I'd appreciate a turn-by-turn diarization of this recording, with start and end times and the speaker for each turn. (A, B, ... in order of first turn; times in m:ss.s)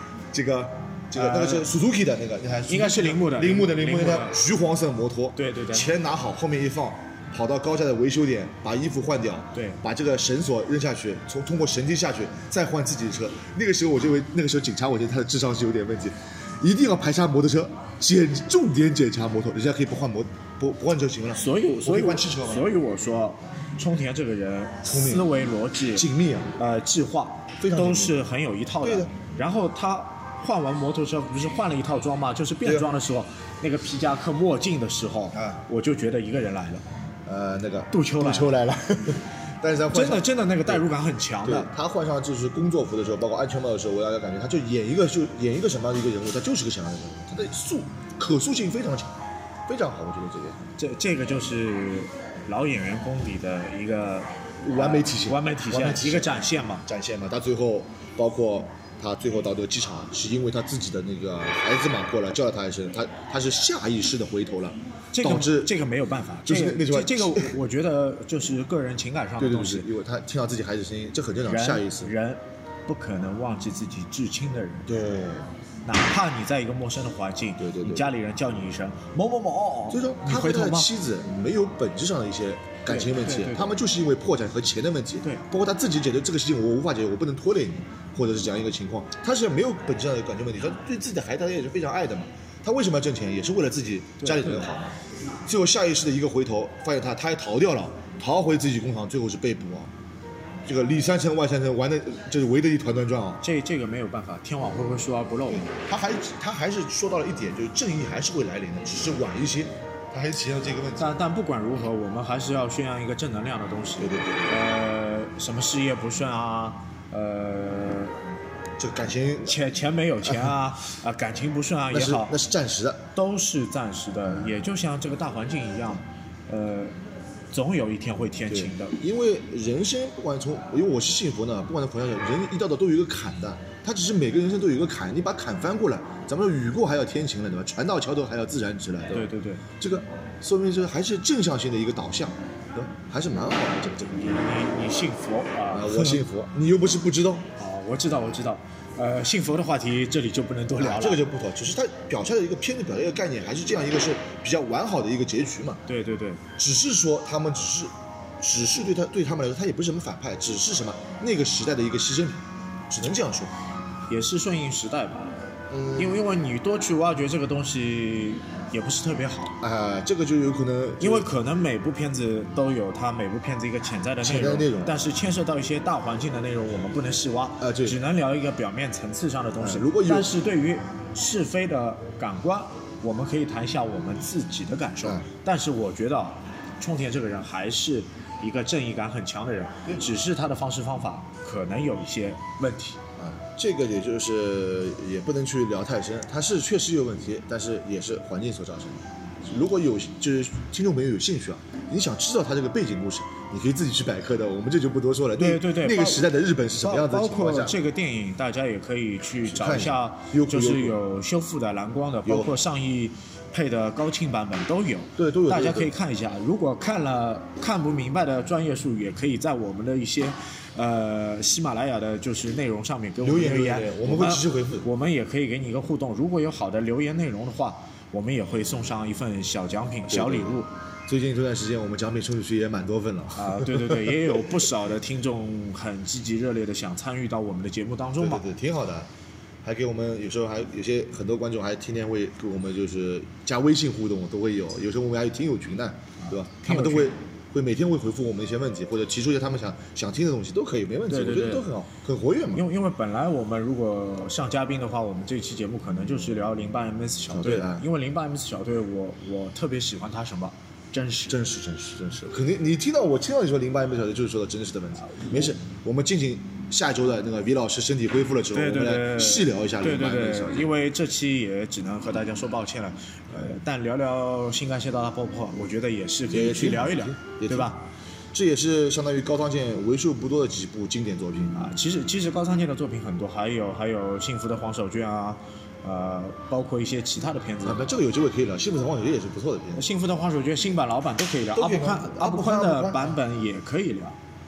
0:00.3-0:22.7 A
0:01.1-0:01.6 B
0:02.7-0:04.4 B
0:05.4-0:05.9 B
0:09.5-0:09.8 B
0:21.4-0:26.0 B
0:24.8-0:25.3 A
0:25.9-0:26.5 A
0:26.6-0:36.8 B
0:27.6-0:28.2 A
0:28.8-0:29.1 A
0:32.6-0:32.9 A
0:35.3-0:35.6 A
0:37.2-0:40.8 A
0:37.9-0:38.5 B
0:39.9-0:41.7 B
0:41.4-0:49.1 A
0:49.7-0:50.7 A
0:50.8-0:56.8 B
0:54.6-1:05.7 A
1:05.1-1:09.9 B
1:06.4-1:07.6 A
1:09.4-1:12.1 A
1:11.4-1:14.9 B
1:14.9-1:15.5 A
1:15.8-1:20.9 B
1:17.6-1:18.1 A
1:19.9-1:39.9 A
1:22.9-1:23.8 B
1:34.2-1:34.7 B
1:40.6-1:43.4 A
1:43.4-1:45.7 B
1:45.5-1:51.2 A
1:51.0-1:58.2 B
1:54.0-1:54.6 A
1:58.8-1:59.6 A
1:59.4-2:02.4 B
2:01.9-2:03.1 A
2:03.1-2:06.9 B
2:07.5-2:09.0 B
2:08.5-2:24.4 A
2:19.1-2:19.6 B
2:24.1-2:26.2 B
2:25.7-2:27.5 A
2:27.6-2:31.2 B
2:30.8-2:35.8 A
2:35.9-2:36.4 B
2:36.6-2:43.5 A
2:44.1-2:45.4 B
2:45.7-2:46.2 A
2:45.9-2:49.5 B
2:49.6-2:51.3 A
2:51.0-3:13.0 B
2:54.2-2:55.0 A
2:57.6-2:58.0 A
2:59.6-3:00.4 A
3:13.2-3:27.8 A
3:25.4-3:26.2 B
3:26.8-3:50.7 B
3:29.4-3:31.0 A
3:32.2-3:32.6 A
3:35.2-3:35.9 A
3:43.2-3:44.8 A
3:50.1-3:54.3 A
3:53.4-3:58.4 B
3:58.2-3:59.1 A
3:59.6-4:12.6 A
4:06.2-4:07.1 B
4:11.1-4:11.7 B
4:12.5-4:21.4 B
4:17.3-4:17.8 A
4:21.3-4:30.7 A
4:25.0-4:25.3 B
4:28.5-4:37.8 B
4:36.3-4:37.7 A
4:38.3-4:41.6 A
4:41.5-4:47.9 B
4:47.6-4:49.9 A
4:49.7-4:54.2 B
4:51.5-4:53.2 A